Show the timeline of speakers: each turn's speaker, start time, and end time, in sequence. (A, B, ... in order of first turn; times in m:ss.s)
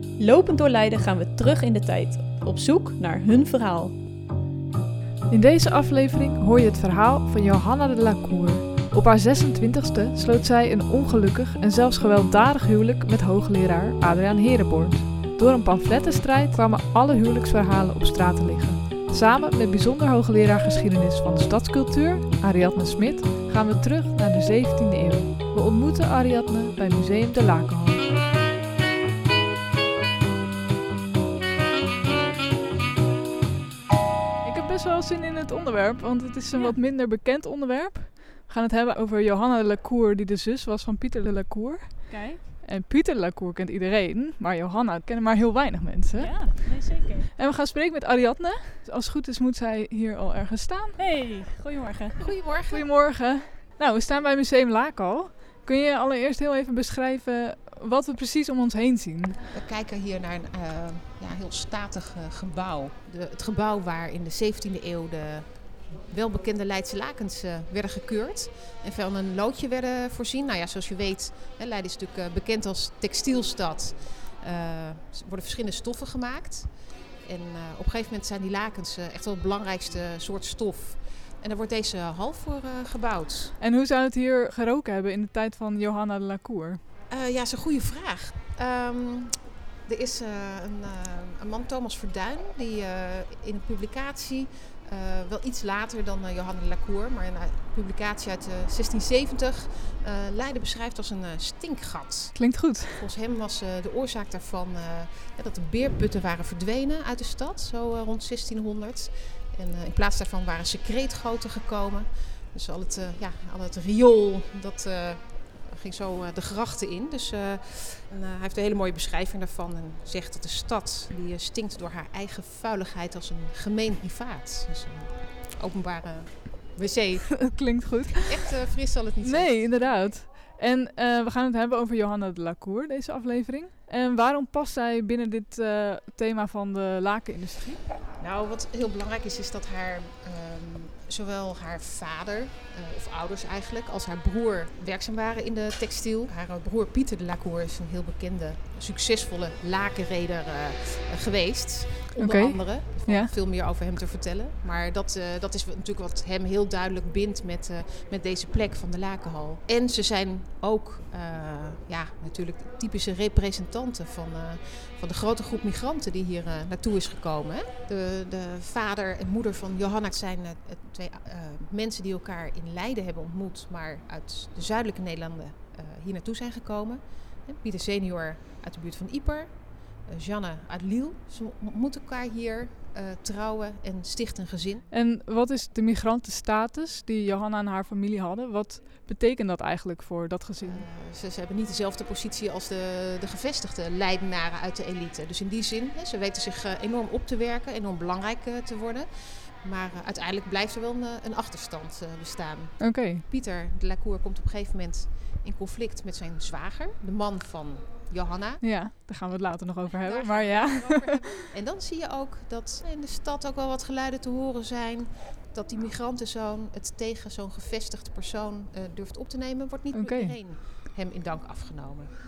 0:00.2-0:04.0 A
0:05.3-0:28.1 B
0:34.4-0:46.6 B
0:42.1-0:42.4 A
0:46.2-0:47.3 A
0:47.4-0:51.0 B
0:51.0-0:52.3 A
0:52.2-0:52.9 C
0:52.7-0:59.5 B
0:59.5-1:23.6 C
1:23.6-1:26.8 B
1:27.1-2:07.7 C
1:42.4-1:43.0 B
2:07.4-2:08.5 B
2:08.2-2:09.7 C
2:09.2-2:17.8 B
2:18.2-3:04.9 C
2:32.2-2:33.3 B
3:04.9-3:10.9 B
3:10.6-3:28.6 C
3:22.8-3:23.2 B
3:28.6-3:31.3 B
3:30.0-3:42.1 C
3:39.9-3:40.4 B